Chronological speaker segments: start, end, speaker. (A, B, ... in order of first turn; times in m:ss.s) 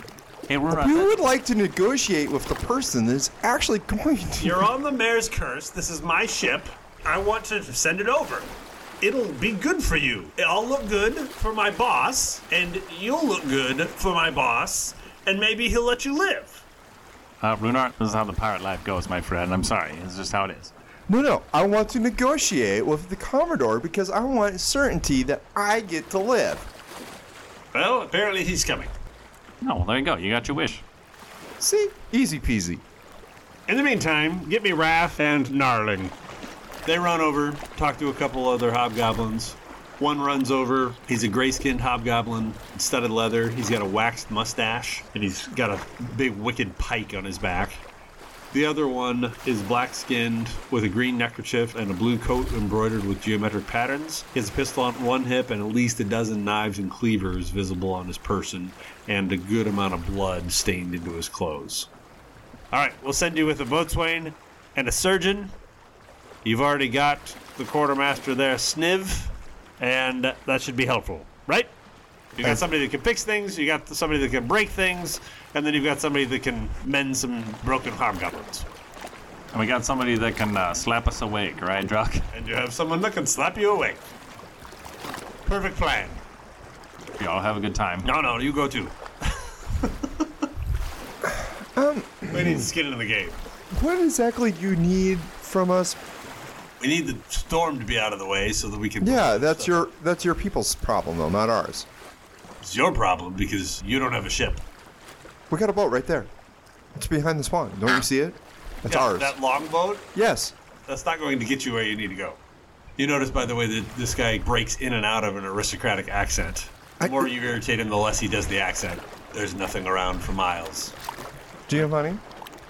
0:00.5-0:01.2 A
0:00.7-0:04.7 B
0:04.4-0:16.6 C
0:17.4-0:20.7 A
0:21.1-0:26.7 B
0:27.7-0:28.9 C
0:29.6-0:30.8 A
0:31.6-0:32.8 B
0:33.7-0:36.2 C
0:36.8-0:47.8 C
0:48.5-1:01.9 C
1:02.7-1:05.5 C
1:06.4-1:11.7 C
1:12.3-1:18.7 C
1:19.5-1:22.3 A
1:22.3-1:24.0 C
1:25.4-1:26.2 C
1:27.2-1:28.1 A
1:28.0-1:30.3 C
1:31.2-1:32.7 B
1:32.3-1:33.4 C
1:33.7-1:36.0 B
1:36.8-1:39.8 C
1:39.0-1:41.9 B
1:42.6-1:44.6 C
1:45.5-1:46.3 B
1:46.9-1:49.3 B
1:48.9-1:50.1 C
1:50.2-1:50.5 B
1:50.9-1:52.4 C
1:53.0-2:01.0 C
1:57.0-1:57.3 B
2:01.7-2:02.2 B